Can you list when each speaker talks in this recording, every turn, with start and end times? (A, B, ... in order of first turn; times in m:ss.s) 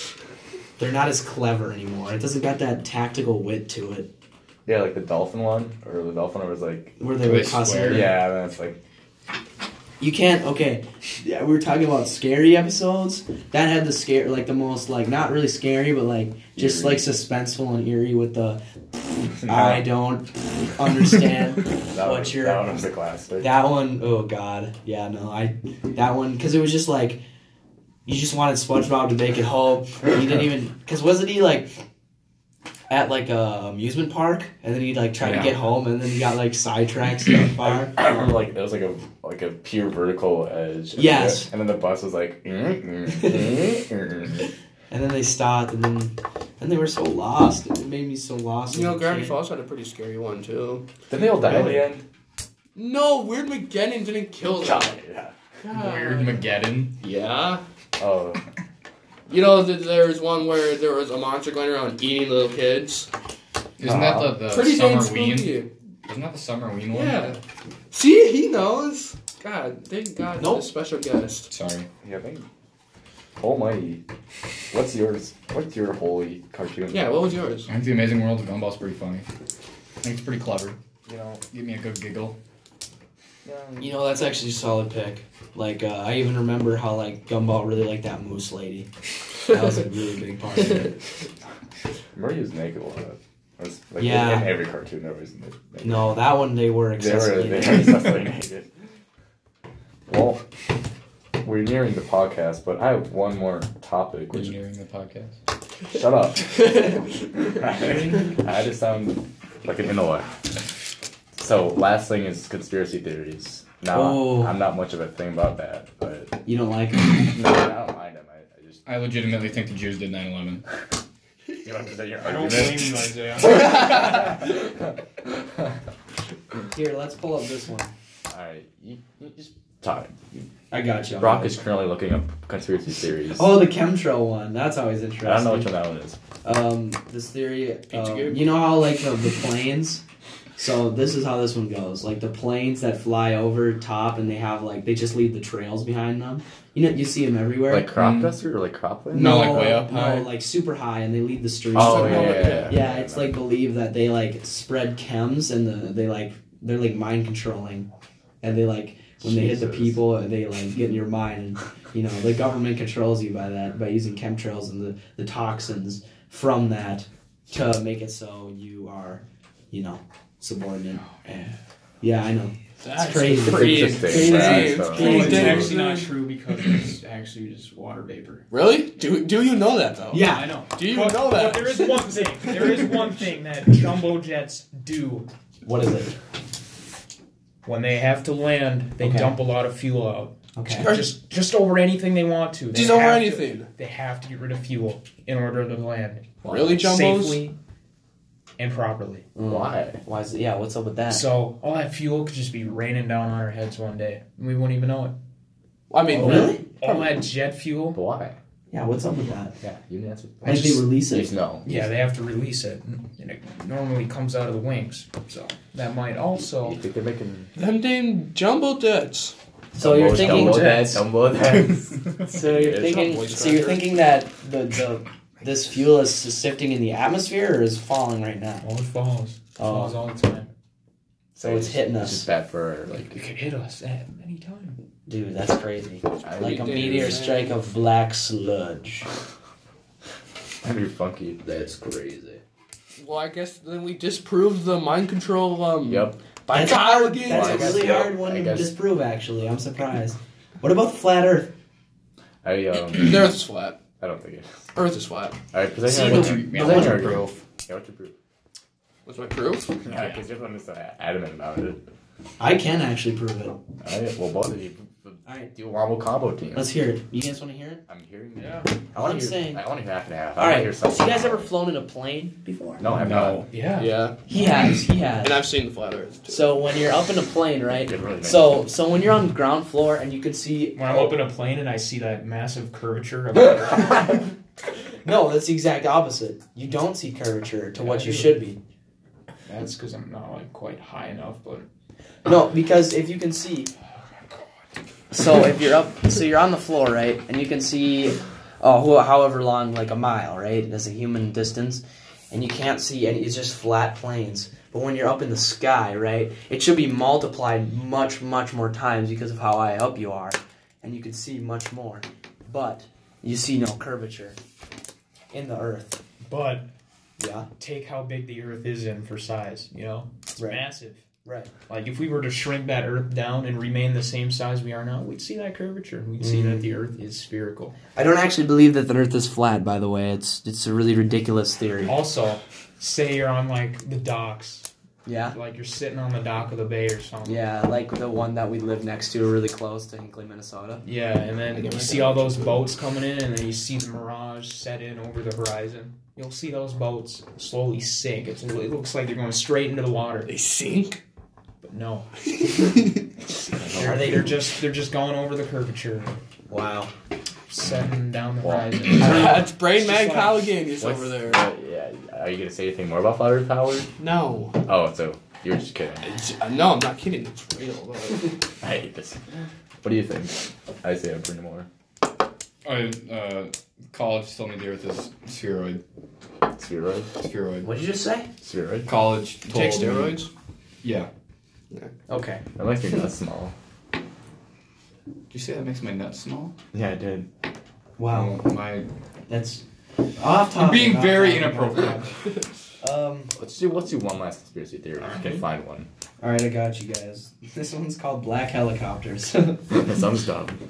0:00.8-0:04.1 A
0:04.7-0:07.0 B
0:07.0-0:08.2 A
0:07.2-0:08.1 C
0:07.8-0:08.8 B
0:10.0-0:18.6 A
0:16.6-0:17.1 B
0:19.2-0:22.8 A
0:19.4-0:19.9 B
0:21.9-0:23.5 B
0:23.4-0:27.2 A
0:28.1-0:31.8 A
0:32.9-0:38.3 A
0:35.2-0:35.6 C
0:37.6-0:44.5 B
0:41.0-0:41.5 A
0:43.1-0:43.7 A
0:44.9-0:49.4 A
0:48.7-0:50.8 D
0:51.1-0:52.0 B
0:52.8-0:55.0 D
0:54.5-0:55.3 B
0:55.6-0:56.4 D
0:55.7-0:57.0 C
0:57.0-0:57.6 D
0:58.0-0:58.4 B
0:59.3-1:03.1 D
1:03.8-1:07.4 C
1:03.8-1:04.4 B
1:04.4-1:05.7 D
1:06.9-1:07.4 D
1:07.9-1:11.5 D
1:10.4-1:10.6 A
1:11.5-1:11.9 C
1:12.0-1:12.5 B
1:13.4-1:14.0 B
1:14.7-1:17.2 B
1:16.9-1:17.7 D
1:17.7-1:19.2 C
1:20.0-1:20.8 C
1:21.1-1:21.4 B
1:21.4-1:22.4 C
1:23.4-1:23.9 B
1:23.8-1:28.9 A
1:29.4-1:31.0 A
1:32.1-1:36.2 B
1:34.0-1:34.6 A
1:35.8-1:38.2 A
1:37.0-1:38.7 B
1:40.1-1:40.4 B
1:41.4-1:44.6 B
1:44.3-1:45.4 C
1:45.9-1:46.9 B
1:47.5-1:50.3 B
1:47.8-1:48.3 A
1:51.4-1:56.4 B
1:53.9-1:54.6 A
1:56.5-1:57.3 A
1:57.2-1:58.8 B
1:58.8-2:00.6 C
2:01.6-2:03.1 B
2:02.2-2:04.3 E
2:06.7-2:07.9 A
2:08.3-2:10.5 B
2:10.7-2:11.6 A
2:11.2-2:13.6 B
2:13.3-2:15.7 A
2:15.2-2:16.2 B
2:16.4-2:20.0 A
2:17.9-2:18.5 D
2:20.6-2:27.9 A
2:27.7-2:29.5 B
2:28.0-2:28.4 C
2:29.1-2:37.9 A
2:29.1-2:30.3 C
2:31.7-2:33.4 B
2:31.8-2:32.8 D
2:38.4-2:55.7 A
2:39.2-2:40.0 B
2:52.8-2:56.1 D
2:53.3-2:55.7 B
2:54.2-2:58.5 E
2:58.5-3:02.9 D
3:00.1-3:00.5 A
3:00.2-3:05.3 E
3:05.6-3:06.1 A
3:07.6-3:17.6 E
3:09.0-3:09.4 A
3:10.6-3:10.9 A
3:10.7-3:11.2 D
3:12.7-3:13.7 D
3:16.4-3:17.4 D
3:18.6-3:19.3 E
3:19.4-3:21.3 A
3:19.5-3:20.0 B
3:21.1-3:25.2 E
3:25.9-3:27.1 D
3:26.1-3:26.6 A
3:26.1-3:28.0 E
3:27.9-3:28.4 B
3:28.7-3:29.6 A
3:29.6-3:31.6 B
3:30.4-3:31.8 A
3:31.6-3:36.8 E
3:36.4-3:37.5 B
3:37.6-3:39.4 D
3:39.7-3:41.0 A
3:39.8-3:43.1 B
3:40.2-3:40.7 E
3:42.3-3:48.6 A
3:42.7-3:43.8 D
3:48.6-3:50.5 E
3:49.6-3:50.0 A
3:51.4-3:53.2 B
3:51.4-3:52.3 A
3:53.1-3:54.8 E
3:55.1-3:59.1 A
3:56.2-3:57.2 B
3:56.4-3:57.6 D
4:00.6-4:01.4 B
4:01.4-4:02.4 A
4:03.0-4:08.2 D
4:05.8-4:06.2 B
4:06.5-4:11.5 A
4:07.3-4:08.8 B
4:12.4-4:13.3 B
4:12.9-4:13.8 D
4:14.0-4:14.6 B
4:14.8-4:15.4 D
4:15.5-4:18.2 B
4:15.9-4:17.1 A
4:15.9-4:17.4 C
4:19.1-4:19.8 D
4:19.8-4:21.8 B
4:22.4-4:23.6 A
4:23.8-4:26.7 B
4:25.3-4:25.5 A
4:26.5-4:27.8 A
4:27.9-4:31.5 B
4:28.4-4:28.7 E
4:29.0-4:29.6 A
4:30.4-4:32.8 A
4:32.8-4:33.4 B
4:32.9-4:33.5 C
4:33.5-4:33.9 E
4:33.8-4:34.2 D
4:34.3-4:35.5 A
4:35.2-4:36.6 D
4:36.3-4:41.2 A
4:37.8-4:38.7 B
4:40.8-4:44.2 E
4:45.0-4:48.6 A
4:47.8-4:48.4 E
4:49.5-4:51.7 E
4:52.2-4:53.7 A
4:55.1-5:14.4 A
5:15.3-5:16.0 A
5:16.2-5:16.7 E
5:17.2-5:17.5 A
5:17.6-5:21.0 E
5:20.4-5:20.6 A
5:21.2-5:21.5 A
5:21.7-5:27.8 E
5:26.2-5:26.7 A
5:28.0-5:32.0 A
5:31.8-5:34.7 E
5:35.0-5:35.4 A
5:35.3-5:37.4 E
5:37.2-5:40.8 A
5:40.8-5:50.3 E
5:41.5-5:42.6 D
5:50.3-5:51.0 D
5:51.6-5:52.2 E
5:52.3-5:52.9 D
5:53.5-5:54.3 B
5:53.8-5:54.3 A
5:53.8-5:56.2 E
5:56.5-5:56.9 A
5:57.5-6:00.5 E
5:58.4-5:59.2 B
5:59.0-6:01.5 D
6:00.8-6:03.9 B
6:04.0-6:04.6 D
6:04.6-6:06.1 B
6:06.0-6:08.4 D
6:08.6-6:09.2 B
6:09.8-6:11.7 B
6:12.6-6:15.8 C
6:16.5-6:17.1 B
6:17.2-6:17.7 C
6:17.6-6:18.3 A
6:18.4-6:18.9 B
6:18.9-6:20.2 C
6:19.5-6:20.3 D
6:20.8-6:21.1 C
6:22.1-6:22.4 A
6:22.6-6:23.5 B
6:25.3-6:26.5 C
6:26.7-6:27.3 B
6:28.0-6:28.4 A
6:28.1-6:28.9 C
6:29.3-6:29.6 A
6:30.2-6:32.0 A
6:30.6-6:31.9 C
6:31.0-6:32.1 E
6:32.8-6:33.3 A
6:33.4-6:35.9 B
6:36.2-6:39.8 A
6:39.7-6:40.6 B